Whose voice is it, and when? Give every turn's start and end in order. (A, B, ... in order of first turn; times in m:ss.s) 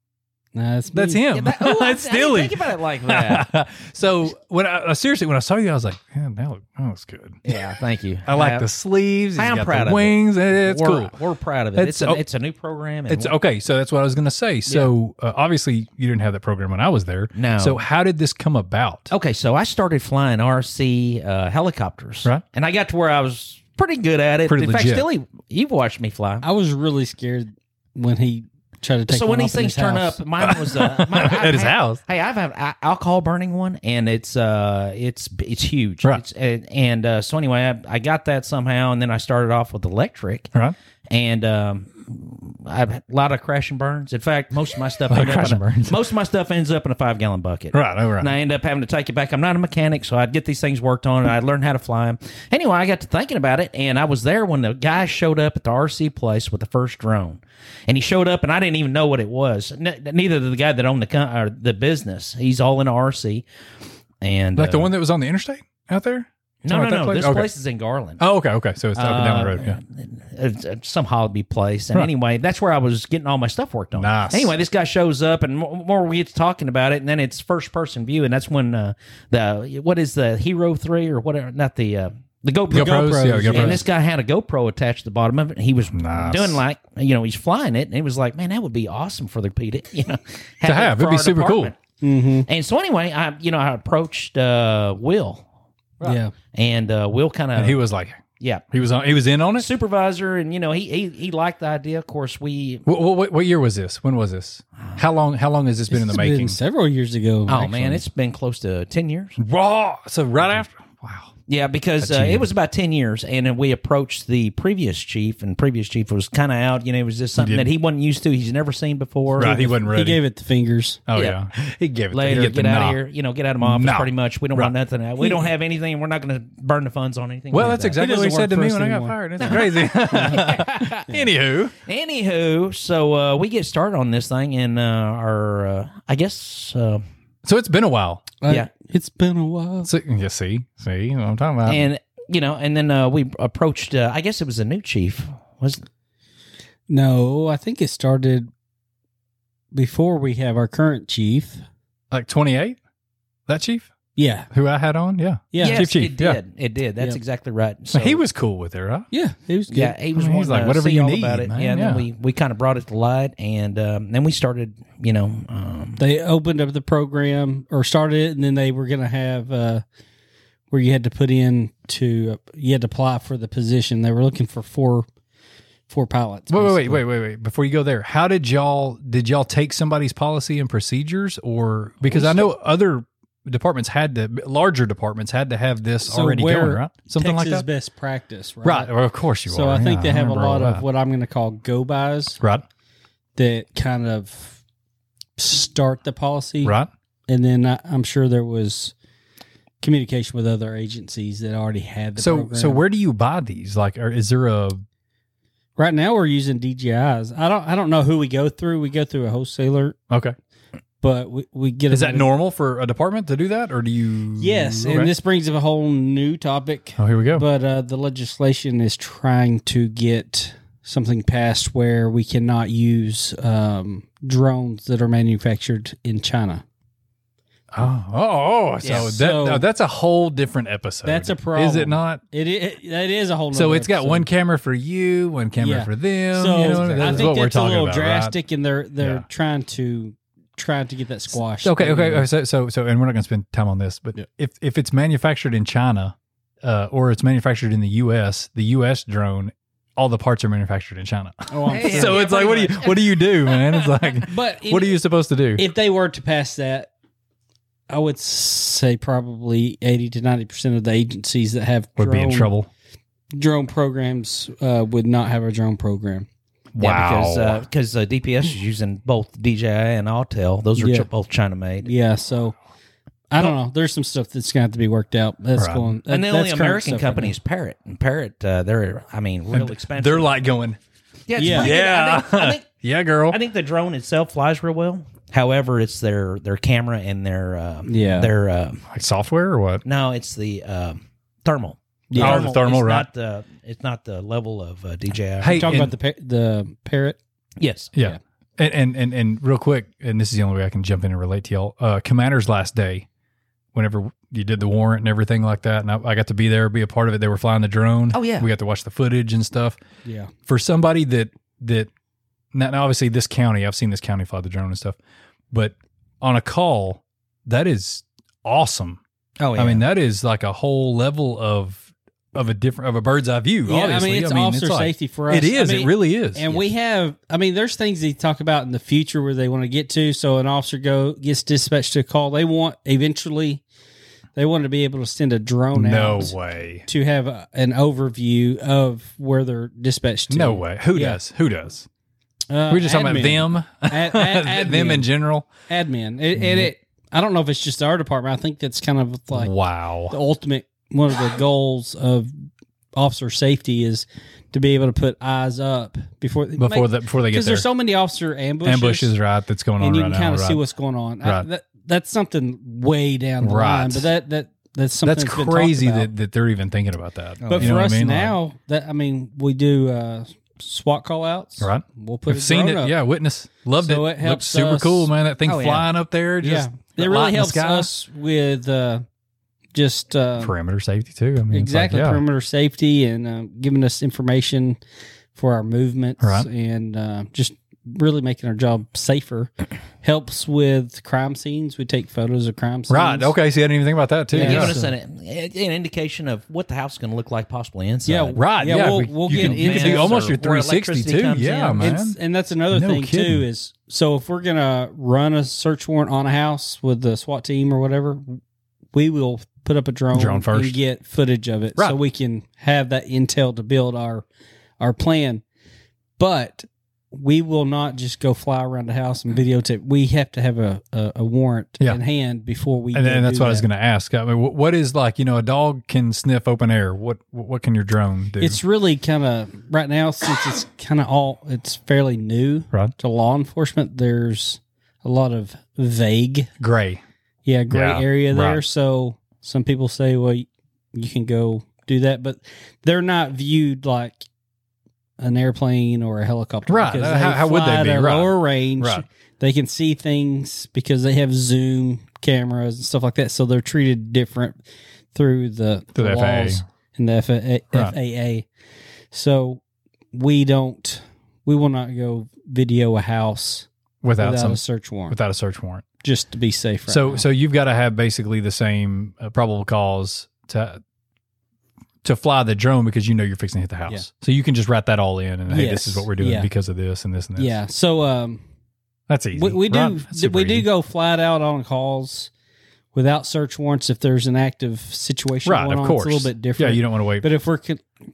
0:00.5-0:01.2 A
0:00.9-0:07.6 B
0:01.3-0:03.5 C
0:07.4-0:08.6 C
0:08.2-0:11.2 B
0:09.3-0:13.3 C
0:11.8-0:12.2 B
0:13.1-0:19.1 B
0:17.3-0:17.8 C
0:19.1-0:26.4 C
0:24.5-0:25.0 B
0:26.4-0:30.2 A
0:29.1-0:40.5 C
0:30.4-0:32.0 B
0:41.1-1:03.4 C
0:45.1-0:46.0 B
0:47.7-0:48.3 B
1:04.2-1:04.9 C
1:04.6-1:07.5 B
1:06.6-1:08.2 C
1:08.2-1:09.8 B
1:09.0-1:31.7 C
1:13.9-1:14.5 B
1:22.7-1:23.8 B
1:22.7-1:23.8 A
1:25.9-1:26.6 B
1:30.6-1:31.7 B
1:32.0-1:32.4 A
1:32.5-1:35.4 C
1:36.0-1:36.3 A
1:36.5-1:37.8 C
1:37.6-1:39.7 B
1:38.4-1:38.6 C
1:39.6-1:42.8 C
1:42.8-1:46.6 B
1:45.9-1:48.0 A
1:47.5-1:49.4 C
1:49.4-1:51.3 B
1:51.5-1:59.5 C
1:52.0-1:52.5 B
1:57.4-1:57.7 B
1:59.3-2:01.0 A
1:59.4-2:00.2 B
2:01.1-2:03.0 B
2:02.1-2:08.0 C
2:03.6-2:04.7 B
2:05.2-2:05.4 A
2:07.5-2:11.7 B
2:08.0-2:09.6 A
2:09.4-2:11.2 C
2:10.1-2:10.4 A
2:11.8-2:17.0 C
2:17.4-2:18.3 B
2:18.4-2:19.9 A
2:19.8-2:21.9 B
2:21.6-2:25.8 C
2:26.9-2:28.5 A
2:29.7-2:31.6 A
2:32.1-2:32.8 B
2:33.5-2:33.9 B
2:34.2-2:34.5 A
2:34.5-2:36.4 B
2:35.5-2:35.9 A
2:35.6-2:38.2 C
2:37.9-2:39.1 B
2:39.1-2:40.0 A
2:39.7-2:46.0 C
2:40.1-2:42.0 B
2:46.0-2:49.8 A
2:50.7-2:55.0 A
2:55.9-2:57.0 A
2:56.5-3:07.6 B
3:02.1-3:02.5 A
3:06.0-3:08.9 A
3:08.6-3:10.8 B
3:09.5-3:12.4 A
3:13.4-3:14.6 A
3:15.4-3:16.7 A
3:16.6-3:16.9 B
3:17.3-3:18.9 A
3:19.8-3:22.8 A
3:22.2-3:24.8 B
3:25.8-3:30.0 A
3:30.1-3:30.3 B
3:31.0-3:32.3 A
3:31.9-3:35.1 B
3:34.4-3:46.6 A
3:37.0-3:37.4 B
3:47.7-3:52.2 B
3:48.8-3:49.1 C
3:48.9-3:49.6 A
3:51.0-3:54.3 A
3:53.5-3:58.3 B
3:55.6-4:02.3 A
3:56.6-3:57.3 C
3:59.0-3:59.2 B
4:01.6-4:15.6 B
4:11.5-4:12.3 A
4:11.7-4:14.2 C
4:14.3-4:15.0 A
4:15.6-4:16.9 A
4:17.9-4:22.5 A
4:22.0-4:22.7 B
4:23.3-4:26.3 A
4:26.7-4:27.6 B
4:26.8-4:31.9 C
4:30.8-4:31.1 A
4:31.8-4:32.6 A
4:33.3-4:37.3 A
4:35.6-4:35.9 B
4:36.1-4:40.3 C
4:39.5-4:40.8 B
4:41.3-4:42.6 C
4:41.4-4:41.7 A
4:41.4-4:43.4 B
4:43.3-4:48.8 C
4:47.8-4:48.3 A
4:48.9-4:49.8 B
4:49.8-4:55.7 C
4:52.1-4:52.5 A
4:52.1-4:53.1 B
4:55.4-4:55.9 B
4:55.5-4:57.2 A
4:57.6-4:57.9 C
4:57.9-5:03.1 B
5:03.7-5:09.8 B
5:08.1-5:08.5 C
5:10.0-5:10.3 A
5:10.5-5:11.9 B
5:12.5-5:15.0 B
5:15.5-5:19.0 B
5:19.4-5:19.8 C
5:19.6-5:26.6 B
5:23.6-5:33.6 A
5:34.4-5:41.2 A
5:35.7-5:36.8 B
5:40.3-5:41.9 B
5:42.5-5:45.1 A
5:42.7-5:45.5 B
5:45.7-5:49.5 A
5:46.3-5:46.7 B
5:49.3-5:50.1 B
5:50.1-5:52.3 A
5:52.9-5:59.1 A
5:56.6-5:57.6 B
5:58.6-6:00.6 B
5:59.8-6:06.1 A
6:03.4-6:04.1 B
6:05.0-6:08.3 B
6:07.4-6:07.8 C
6:07.5-6:12.9 A
6:11.6-6:17.9 B
6:13.8-6:15.1 A
6:15.4-6:15.9 C
6:16.4-6:19.0 A
6:19.7-6:20.5 A
6:20.4-6:22.2 B
6:21.5-6:24.8 A
6:25.3-6:33.3 A
6:26.2-6:26.5 B
6:32.9-6:34.8 B
6:34.3-6:34.9 A
6:34.4-6:38.4 C
6:38.0-6:40.2 A
6:38.3-6:42.2 B
6:39.3-6:41.9 C
6:41.8-6:48.4 A
6:42.7-6:43.5 B
6:48.9-6:54.2 A
6:50.1-6:50.8 B
6:54.8-6:55.4 A
6:56.2-7:03.7 A
7:02.9-7:08.6 B
7:08.4-7:16.5 A
7:16.6-7:17.0 B
7:17.4-7:24.2 A
7:17.7-7:18.6 B
7:25.2-7:34.6 A
7:26.7-7:29.0 B
7:35.1-7:38.5 A
7:36.0-7:36.6 B
7:39.1-7:39.6 A
7:40.1-7:45.2 A
7:44.0-7:45.8 B
7:46.0-7:47.2 A
7:46.9-7:50.8 B
7:52.0-7:57.6 B
7:55.5-7:56.5 A
7:57.4-7:58.4 A
7:59.1-8:00.7 B
7:59.3-8:02.3 A
8:02.9-8:07.8 A
8:05.4-8:07.3 B